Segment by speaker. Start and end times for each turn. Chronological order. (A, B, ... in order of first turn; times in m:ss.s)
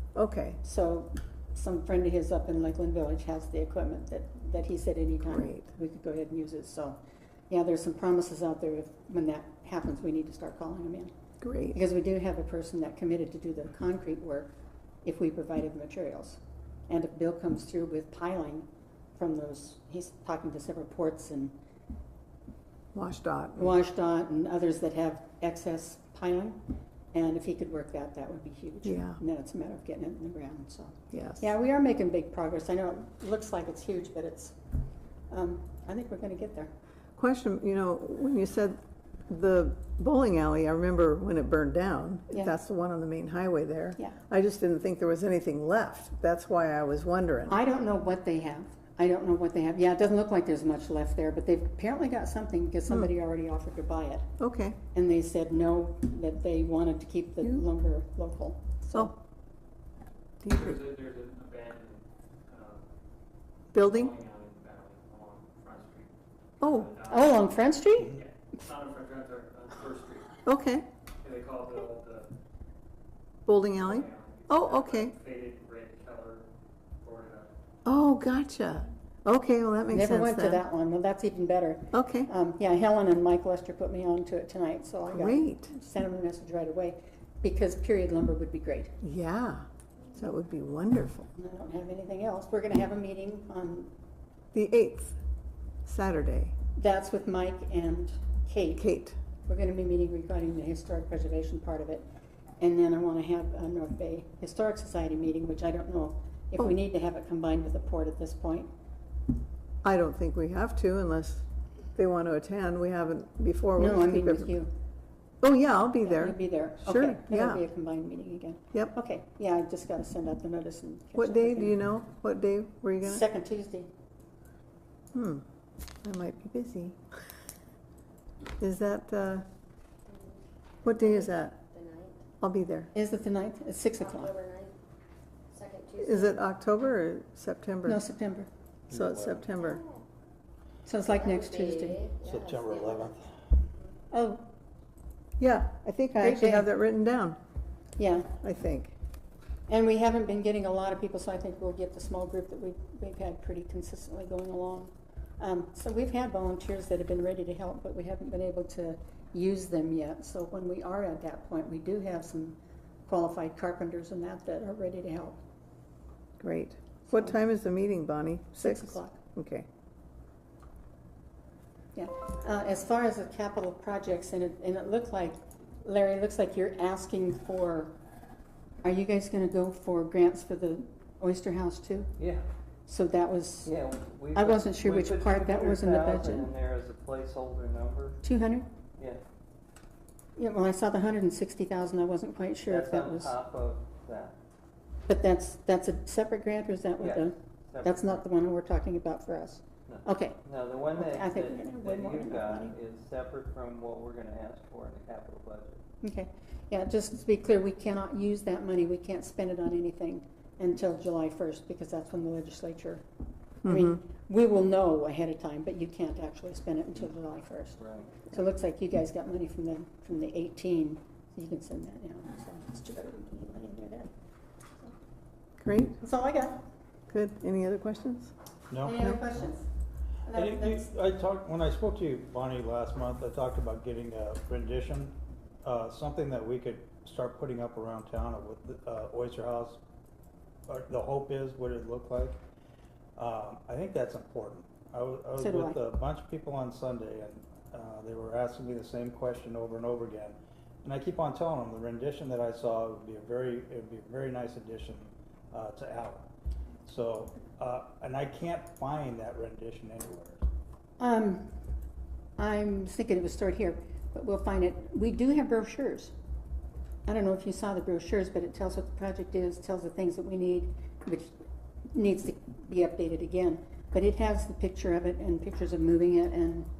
0:00.1-0:00.6 A
0:00.6-0:07.0 B
0:05.3-0:05.7 A
0:07.5-0:11.1 B
0:11.4-0:11.8 A
0:11.7-0:14.5 B
0:15.0-0:21.5 B
0:22.9-0:23.7 A
0:23.6-0:26.6 B
0:27.1-0:34.6 B
0:28.8-0:29.2 A
0:31.1-0:31.5 A
0:35.3-0:36.7 B
0:37.2-0:38.8 A
0:39.3-0:47.6 A
0:47.5-0:54.3 B
0:54.4-0:54.8 A
0:54.9-0:59.1 B
1:00.4-1:00.8 A
1:00.5-1:02.8 C
1:03.7-1:04.1 A
1:03.7-1:07.4 C
1:06.6-1:06.9 A
1:07.1-1:08.2 B
1:08.1-1:10.4 C
1:10.4-1:10.9 A
1:11.2-1:12.3 C
1:13.4-1:15.1 A
1:13.8-1:16.5 C
1:17.0-1:17.5 C
1:17.8-1:20.6 A
1:19.9-1:28.9 B
1:21.9-1:22.3 A
1:25.1-1:25.7 A
1:29.0-1:31.3 A
1:31.3-1:33.9 B
1:34.5-1:35.1 A
1:35.8-1:36.5 A
1:36.8-1:38.8 B
1:38.8-1:39.2 A
1:39.5-1:42.0 B
1:42.6-1:48.7 B
1:49.8-1:51.4 A
1:52.0-1:54.5 A
1:53.8-1:54.7 B
1:55.4-1:57.6 A
1:56.0-2:01.7 B
2:01.2-2:03.2 A
2:03.0-2:03.9 B
2:05.1-2:05.4 A
2:06.0-2:07.0 A
2:08.6-2:09.4 A
2:10.8-2:11.6 A
2:11.0-2:12.2 D
2:12.4-2:12.9 A
2:12.9-2:14.4 B
2:14.2-2:14.7 D
2:15.5-2:16.4 D
2:16.0-2:18.0 A
2:17.8-2:18.5 B
2:18.9-2:19.5 E
2:18.9-2:19.8 A
2:20.8-2:22.1 B
2:21.2-2:23.1 D
2:22.2-2:23.4 E
2:24.1-2:24.4 B
2:25.4-2:27.4 A
2:26.1-2:26.7 B
2:28.0-2:28.3 B
2:28.4-2:28.9 A
2:29.7-2:45.4 B
2:46.4-2:49.7 A
2:47.1-2:47.4 B
2:48.6-2:49.2 B
2:51.9-2:57.9 B
2:58.8-3:02.1 B
3:02.2-3:02.4 F
3:02.9-3:03.7 B
3:03.6-3:08.2 F
3:04.3-3:06.5 B
3:08.2-3:08.7 B
3:09.0-3:09.2 F
3:10.4-3:13.3 B
3:12.6-3:14.4 F
3:15.1-3:20.4 B
3:17.0-3:18.2 F
3:19.9-3:25.8 F
3:20.9-3:22.8 B
3:26.0-3:33.0 B
3:33.6-3:34.0 A
3:33.6-3:44.1 B
3:37.8-3:38.2 F
3:45.6-3:46.0 A
3:46.0-3:46.6 B
3:47.1-3:48.3 A
3:48.7-3:49.2 E
3:48.8-3:49.6 B
3:50.2-3:50.9 B
3:50.3-3:59.8 E
4:00.7-4:02.4 E
4:03.2-4:16.3 E
4:05.4-4:05.8 B
4:16.8-4:20.4 E
4:21.0-4:21.4 B
4:22.4-4:26.1 B
4:27.0-4:31.3 B
4:31.9-4:36.7 B